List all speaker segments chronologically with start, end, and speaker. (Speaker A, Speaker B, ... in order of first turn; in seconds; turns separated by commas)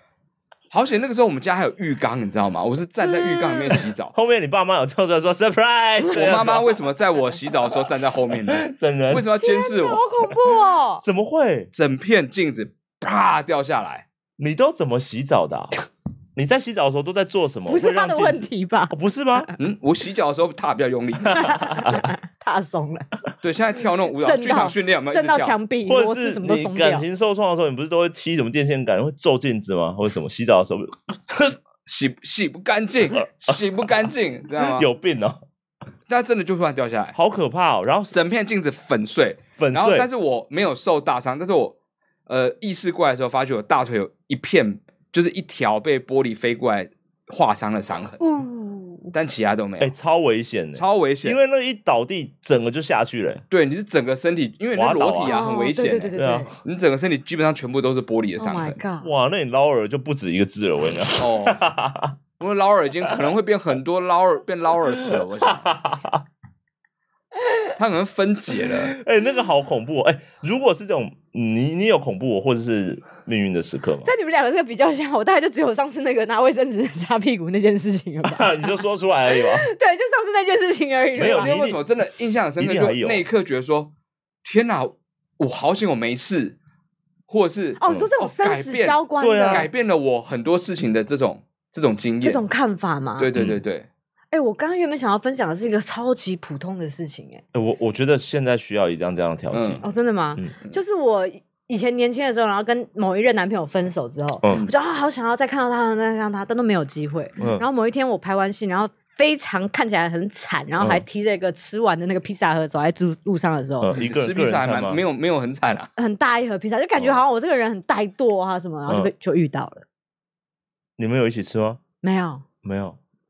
Speaker A: 0.7-4.1, Speaker B: 4.1-6.8, Speaker A: 6.1-10.0, Speaker B: 8.5-9.3, Speaker C: 9.4-11.0, Speaker B: 11.0-11.7, Speaker A: 11.7-14.1, Speaker B: 14.4-15.7, Speaker B: 16.4-19.5, Speaker C: 17.7-19.5, Speaker A: 19.6-21.5, Speaker B: 21.2-22.1, Speaker C: 21.3-23.1, Speaker A: 23.4-25.5, Speaker C: 24.2-27.0, Speaker B: 25.9-31.6, Speaker A: 31.9-34.9, Speaker B: 34.6-35.4, Speaker A: 36.1-37.2, Speaker B: 37.1-38.1, Speaker A: 38.1-41.8, Speaker B: 39.6-40.1, Speaker A: 42.3-48.2, Speaker C: 48.2-49.1, Speaker A: 49.1-49.9, Speaker B: 49.8-53.4, Speaker A: 50.7-51.4, Speaker A: 53.5-58.8, Speaker B: 54.7-55.4, Speaker C: 55.2-56.5, Speaker B: 56.2-56.5, Speaker C: 58.4-59.1, Speaker B: 59.0-62.2, Speaker A: 61.2-61.6, Speaker A: 62.4-65.7, Speaker B: 65.0-66.2, Speaker A: 67.8-68.9, Speaker B: 68.9-74.1, Speaker C: 74.0-81.5, Speaker B: 78.2-79.7, Speaker B: 81.2-81.8, Speaker A: 81.2-83.9, Speaker B: 82.6-83.2, Speaker A: 84.4-86.6, Speaker A: 87.3-92.4, Speaker C: 87.8-89.7, Speaker B: 89.2-89.7, Speaker C: 92.2-93.3, Speaker A: 93.2-93.9, Speaker B: 93.3-93.6, Speaker C: 94.3-97.4, Speaker B: 97.5-99.8, Speaker A: 99.5-99.8, Speaker C: 99.8-113.9, Speaker B: 104.4-104.7, Speaker B: 107.4-107.6, Speaker B: 113.8-115.0, Speaker A: 114.0-115.9, Speaker C: 116.0-119.8, Speaker B: 121.0-121.8, Speaker C: 122.0-122.4, Speaker B: 122.6-123.0